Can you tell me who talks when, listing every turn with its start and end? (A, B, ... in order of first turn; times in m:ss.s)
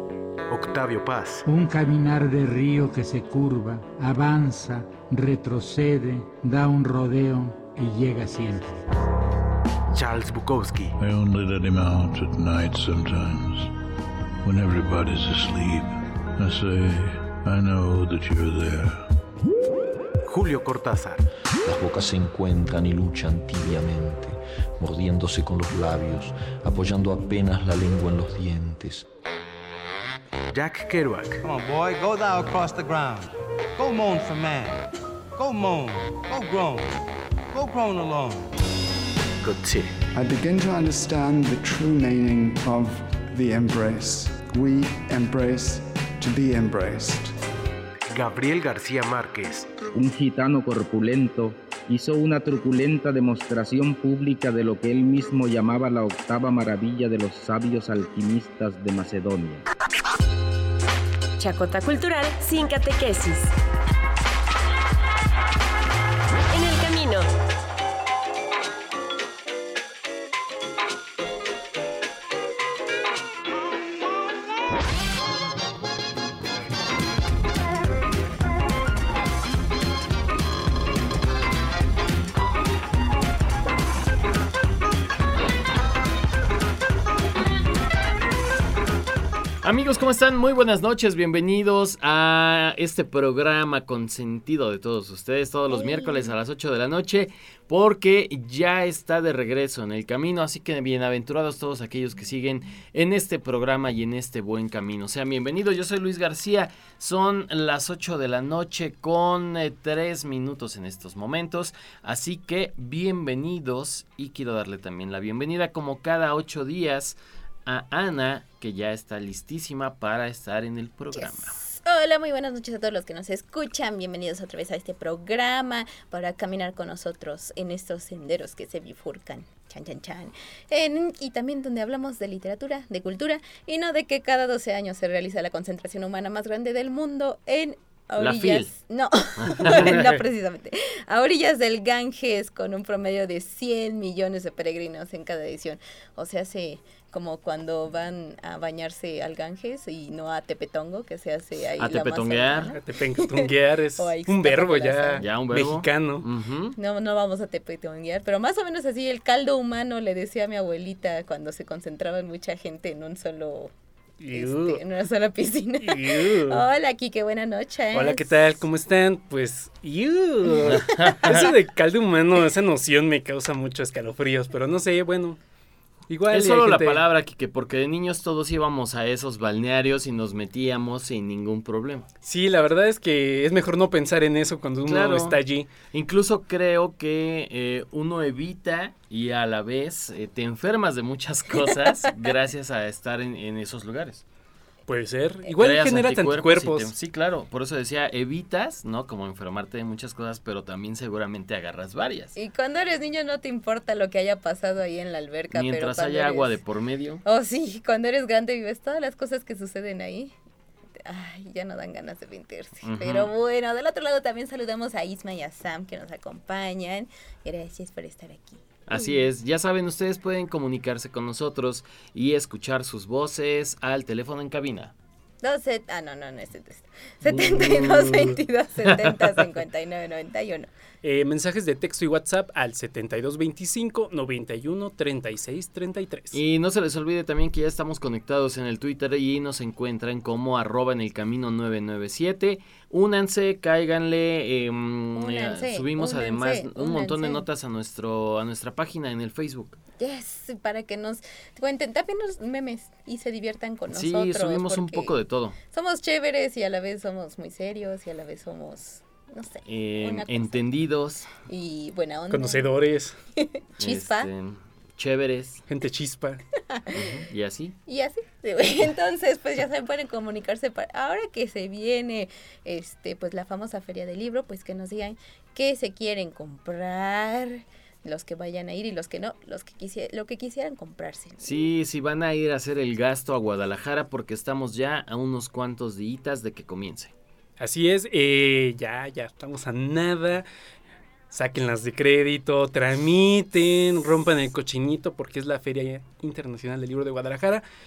0:00.5-0:01.4 A
0:01.4-0:08.8 B
0:09.9-0:11.0 A
0:11.0-0:13.7 C
0:14.4-0:19.1 C
0:20.2-0:21.2 A
0:21.6-0:29.1 D
0:30.5-0:31.4 A
0:31.4-0:34.8 E
0:35.4-0:36.9 E
0:37.5-0:38.5 E
0:39.4-0:39.9 D
0:40.1-0:47.3 F
0:48.1-0:49.7 A
0:49.9-0:59.6 G
1:01.4-1:03.5 H
1:06.5-1:07.3 H
1:29.6-2:01.6 I
1:35.8-1:36.3 J
2:01.2-2:35.3 J
2:18.2-2:18.7 I
2:19.4-2:20.0 I
2:31.8-2:32.8 I
2:32.7-2:36.3 K
2:35.2-2:36.8 I
2:36.8-2:43.7 J
2:44.2-2:44.8 K
2:44.3-2:48.6 J
2:45.8-2:46.6 K
2:47.9-2:55.4 K
2:50.7-2:51.5 I
2:56.1-2:57.0 K
2:56.3-3:02.1 I
3:02.2-3:05.7 K
3:04.9-3:05.4 I
3:05.9-3:14.2 I
3:14.9-3:16.9 K
3:15.5-3:22.3 I
3:22.4-3:26.6 J
3:25.5-3:27.2 I
3:27.2-3:30.3 J
3:31.0-3:39.1 J
3:32.8-3:33.3 I
3:38.9-3:44.9 I
3:45.4-3:50.7 J
3:47.3-3:48.4 I
3:51.0-3:56.4 K
3:56.3-4:09.8 I
4:05.1-4:07.4 J
4:10.0-4:15.2 J
4:13.9-4:15.6 I
4:15.7-4:20.6 J
4:19.7-4:21.3 I
4:21.5-4:22.7 J
4:22.3-4:23.2 K
4:23.4-4:24.3 J
4:23.8-4:25.6 I
4:25.7-4:26.4 K
4:26.7-4:27.2 J
4:26.9-4:27.8 I
4:27.9-4:41.6 J
4:41.4-4:47.1 I
4:47.6-4:50.5 K
4:51.3-4:57.6 K